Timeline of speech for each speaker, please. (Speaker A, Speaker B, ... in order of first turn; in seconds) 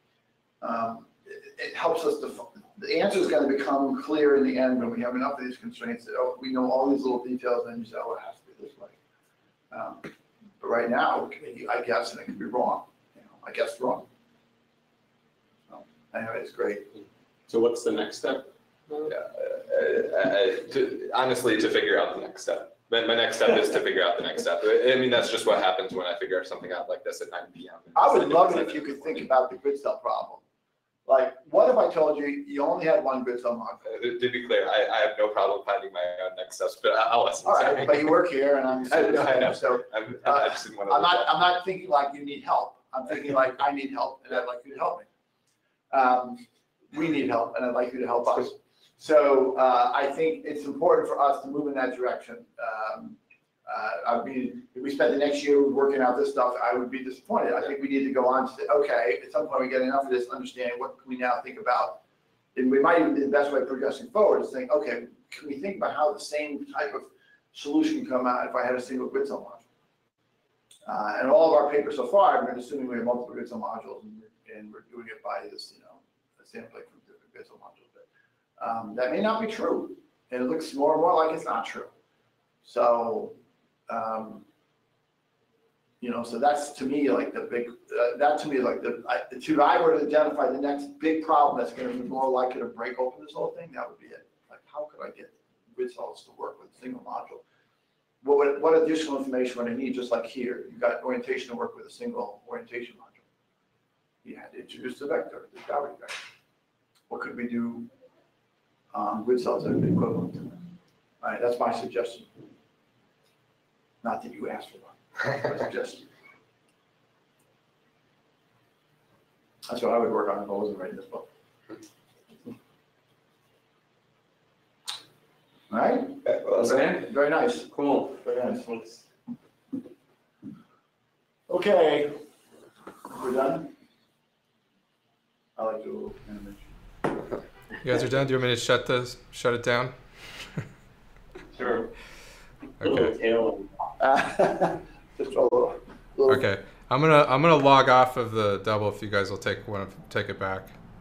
Speaker A: 0.6-8.9, 9.7-14.1, 15.7-16.9, 27.9-30.4, 31.1-33.9, 37.4-45.1, 45.9-62.0, 62.5-69.6, 70.8-78.0, 78.6-81.9, 82.6-83.3, 83.9-84.4, 86.0-97.4, 98.2-103.2, 104.2-106.2, 107.1-107.9, 108.9-110.6, 111.2-112.3, 114.0-116.0, 119.7-121.2, 125.7-127.7, 128.2-128.7, 131.5-132.2, 133.1-133.7, 135.6-136.7, 144.0-146.4
Speaker B: 17.5-19.1, 126.5-127.1, 127.7-129.0, 141.5-141.9, 142.8-143.7
Speaker C: 19.1-29.3, 33.8-38.2, 38.9-41.3, 126.3-126.8
Speaker D: 137.8-140.6, 142.8-143.1, 146.3-150.8